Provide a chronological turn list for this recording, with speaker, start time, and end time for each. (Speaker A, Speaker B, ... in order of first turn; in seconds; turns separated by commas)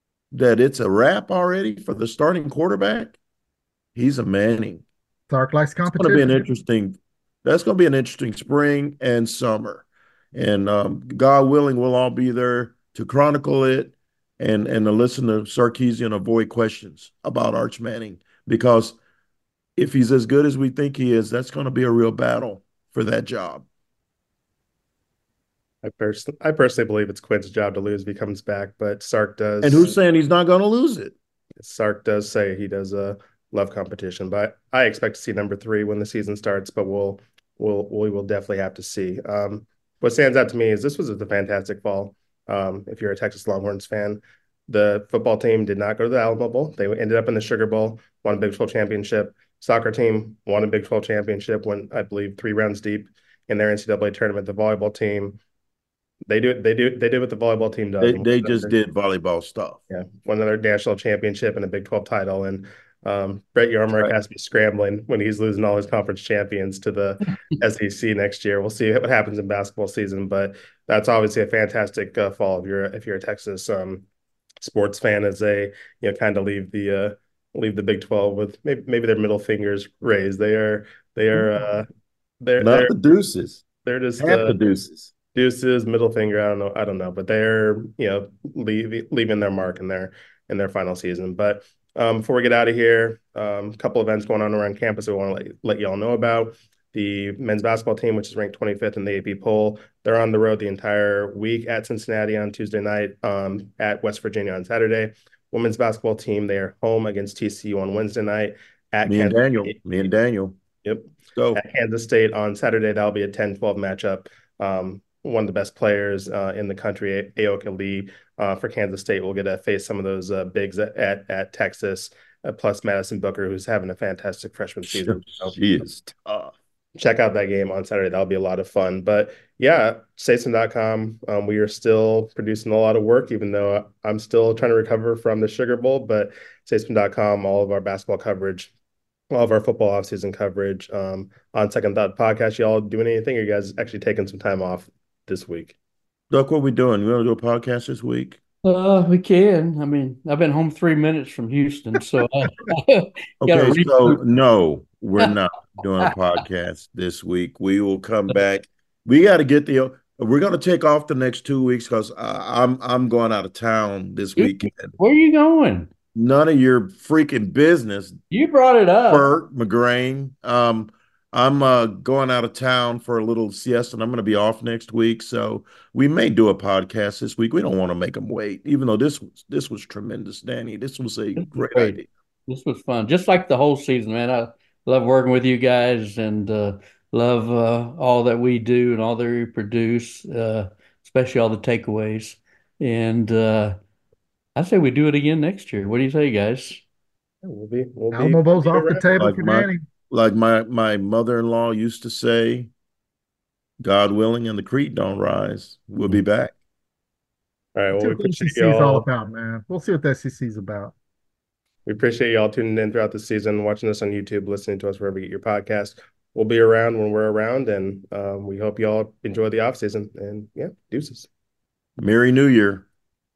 Speaker A: 0.3-3.2, Speaker A: 3.9-4.8, Speaker B: 5.3-6.4, Speaker A: 5.8-19.0, Speaker A: 19.8-23.6, Speaker C: 25.8-29.9, Speaker A: 29.6-31.1, Speaker C: 31.6-55.4, Speaker C: 56.3-58.7, Speaker A: 58.0-59.8, Speaker C: 59.9-74.0, Speaker C: 74.6-81.9, Speaker C: 82.4-82.9, Speaker A: 82.6-83.6, Speaker C: 83.8-84.6, Speaker A: 84.2-85.1, Speaker C: 85.3-109.8, Speaker A: 109.0-110.5, Speaker C: 110.8-125.5, Speaker A: 111.3-111.6, Speaker A: 124.8-126.5, Speaker C: 127.0-138.7, Speaker C: 139.3-145.8, Speaker A: 146.3-148.4, Speaker D: 148.6-154.2, Speaker A: 153.4-164.9, Speaker D: 164.4-165.9, Speaker A: 166.1-168.2, Speaker D: 168.3-169.3, Speaker A: 169.1-182.1, Speaker D: 181.4-193.8, Speaker D: 194.5-196.8, Speaker C: 197.4-199.2, Speaker B: 198.1-199.8, Speaker A: 199.2-202.7, Speaker A: 203.8-206.5, Speaker C: 207.7-209.1, Speaker B: 207.9-210.9, Speaker C: 211.8-221.3, Speaker A: 222.0-222.8